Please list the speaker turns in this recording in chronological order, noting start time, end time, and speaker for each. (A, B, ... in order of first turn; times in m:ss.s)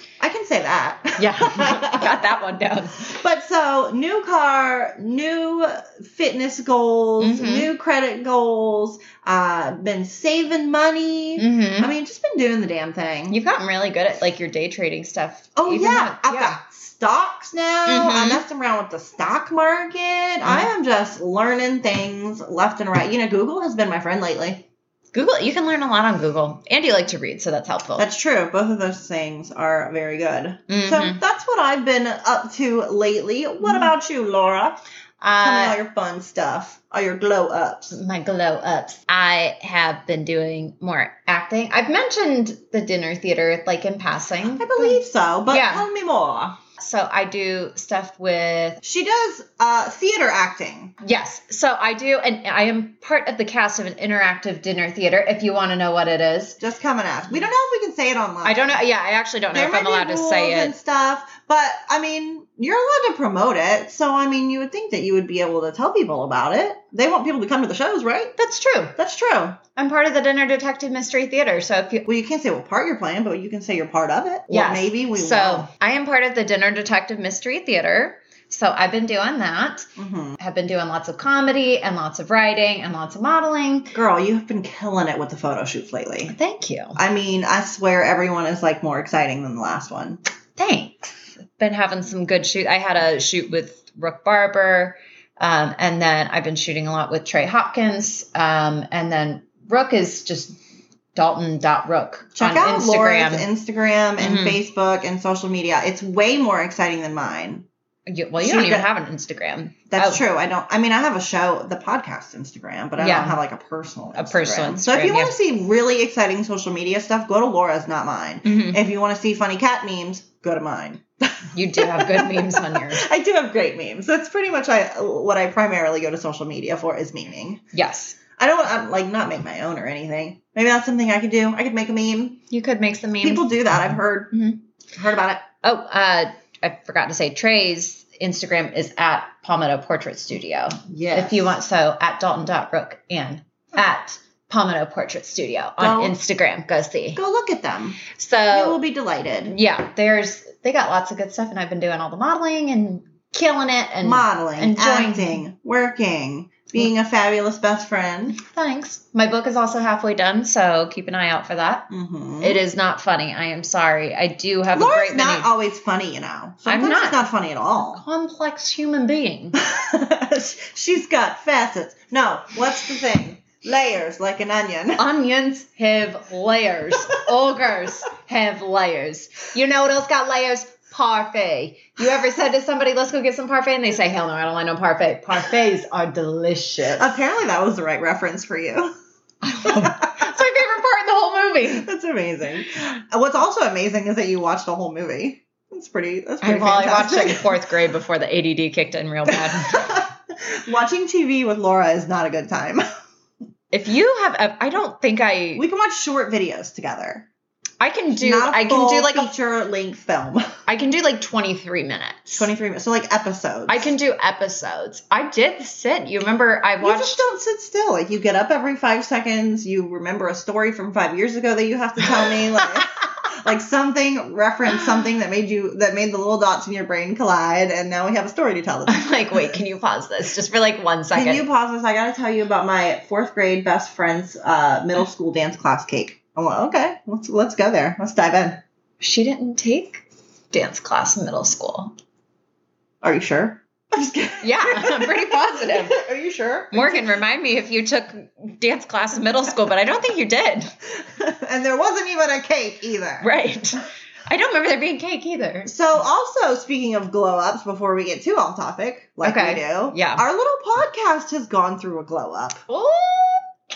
0:00.2-0:02.1 A
0:01.2-0:03.1 B
0:03.0-0:13.4 A
0:07.2-0:07.7 B
0:11.4-0:11.9 B
0:13.3-0:16.6 B
0:15.6-0:24.6 A
0:17.9-0:18.4 B
0:20.4-0:20.7 B
0:25.1-0:28.1 B
0:28.0-0:34.8 A
0:30.7-0:31.2 B
0:33.6-0:33.9 B
0:35.2-0:35.8 B
0:35.4-0:38.0 A
0:37.9-0:45.9 B
0:44.6-0:46.6 A
0:46.8-0:48.8 B
0:48.8-0:50.9 A
0:51.0-0:56.6 B
0:56.6-0:58.8 A
0:58.4-1:00.7 B
0:59.5-1:08.3 A
1:08.4-1:09.0 B
1:09.0-1:09.6 A
1:09.8-1:12.1 B
1:12.1-1:15.7 A
1:14.5-1:23.9 B
1:20.0-1:20.4 A
1:23.9-1:26.4 A
1:26.3-1:27.0 B
1:27.0-1:30.2 A
1:30.6-1:40.6 B
1:41.2-1:43.5 B
1:42.4-1:47.7 A
1:44.2-1:44.6 B
1:48.1-1:50.2 B
1:48.4-1:48.9 A
1:49.9-2:07.6 A
1:53.0-1:53.4 B
1:54.2-1:55.4 B
1:58.4-1:58.8 B
2:01.5-2:03.1 B
2:07.7-2:08.2 B
2:08.4-2:12.4 A
2:12.5-2:13.5 B
2:13.2-2:14.4 A
2:14.3-2:14.6 B
2:14.9-2:15.4 A
2:15.6-2:27.2 B
2:20.9-2:21.6 A
2:25.8-2:26.2 A
2:27.2-2:29.6 A
2:28.1-2:28.8 B
2:29.5-2:35.4 B
2:34.0-2:38.4 A
2:38.3-2:41.9 B
2:41.9-2:42.6 A
2:42.4-2:45.5 B
2:44.7-2:48.0 A
2:46.7-2:47.3 B
2:47.8-2:49.6 B
2:49.6-2:55.1 A
2:55.0-3:07.2 B
3:07.0-3:08.9 A
3:09.4-3:11.9 B
3:09.6-3:10.3 A
3:11.8-3:17.6 A
3:16.4-3:19.9 B
3:19.3-3:22.9 A
3:23.7-3:25.6 B
3:25.6-3:27.3 A
3:27.8-3:29.3 B
3:28.1-3:30.5 A
3:30.7-3:32.5 B
3:32.4-3:33.9 A
3:33.7-3:37.2 B
3:36.8-3:49.6 A
3:48.9-3:51.5 B
3:51.1-3:58.6 A
3:59.0-4:01.9 B
4:03.0-4:07.1 A
4:04.4-4:06.0 B
4:06.7-4:10.7 B
4:11.0-4:13.3 A
4:13.2-4:15.7 B
4:15.7-4:22.6 A
4:19.2-4:20.2 B
4:22.7-4:23.5 B